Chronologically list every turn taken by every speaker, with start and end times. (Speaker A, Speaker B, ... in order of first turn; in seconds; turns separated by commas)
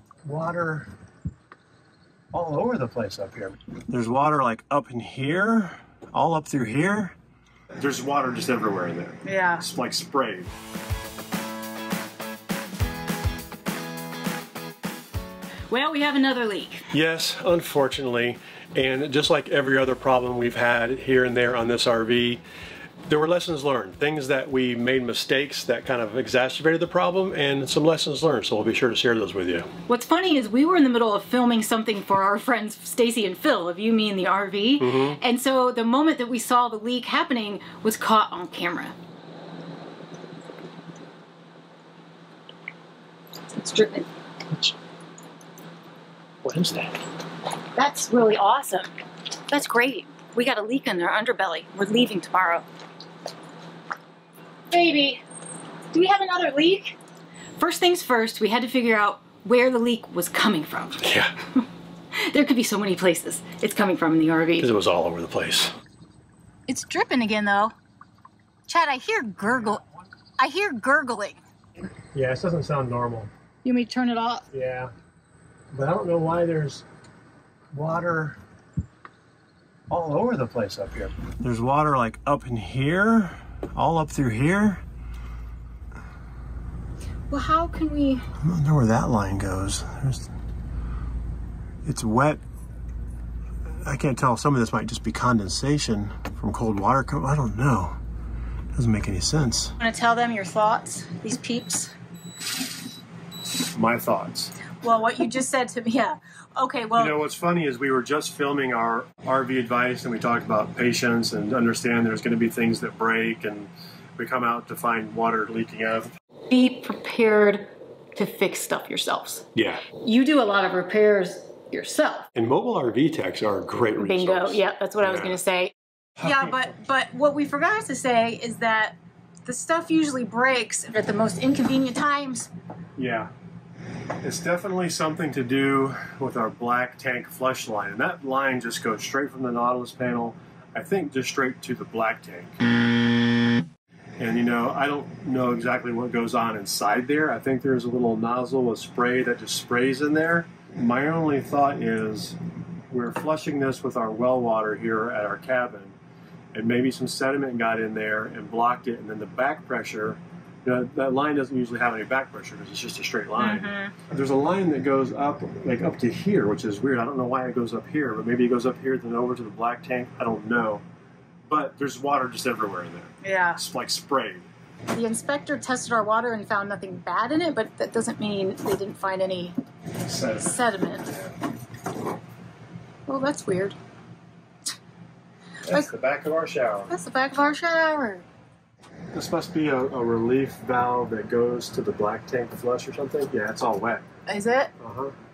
Speaker A: 0.2-0.9, Speaker A: 2.3-7.2, Speaker A: 7.8-10.5, Speaker B: 9.2-9.6, Speaker B: 15.7-16.9, Speaker A: 16.9-22.4, Speaker A: 23.1-29.7, Speaker B: 29.9-38.9, Speaker A: 34.8-35.2, Speaker B: 43.5-44.1, Speaker A: 46.4-47.0, Speaker B: 47.7-48.9, Speaker B: 49.5-52.6, Speaker B: 54.7-55.2, Speaker B: 55.9-57.0, Speaker B: 57.6-61.1, Speaker A: 61.0-61.3, Speaker B: 62.1-64.7, Speaker A: 64.6-65.7, Speaker B: 66.7-67.7, Speaker B: 68.7-69.8, Speaker B: 70.4-71.4, Speaker A: 72.1-73.3, Speaker B: 73.6-74.5, Speaker A: 74.5-74.9, Speaker A: 75.7-76.8, Speaker A: 77.7-78.4, Speaker A: 79.9-84.8, Speaker B: 87.3-88.2, Speaker A: 88.4-90.3, Speaker A: 91.8-92.4, Speaker A: 93.8-98.0, Speaker A: 98.7-99.8, Speaker B: 99.8-101.9, Speaker A: 103.7-104.5, Speaker B: 104.8-107.2, Speaker A: 107.0-116.1, Speaker B: 116.5-122.3, Speaker A: 119.5-119.8, Speaker A: 122.3-125.4, Speaker B: 124.0-132.5, Speaker A: 126.2-126.6, Speaker A: 133.0-133.3, Speaker A: 134.2-142.5, Speaker A: 144.2-152.4, Speaker A: 152.9-155.9, Speaker A: 156.5-170.8, Speaker B: 163.4-163.9, Speaker A: 171.5-174.5, Speaker B: 173.2-173.6, Speaker B: 174.9-179.5, Speaker A: 180.0-181.3, Speaker B: 180.4-181.2, Speaker B: 183.1-183.8, Speaker A: 185.6-186.9, Speaker B: 186.9-188.2, Speaker A: 189.1-194.0, Speaker B: 194.3-194.7, Speaker A: 194.8-195.1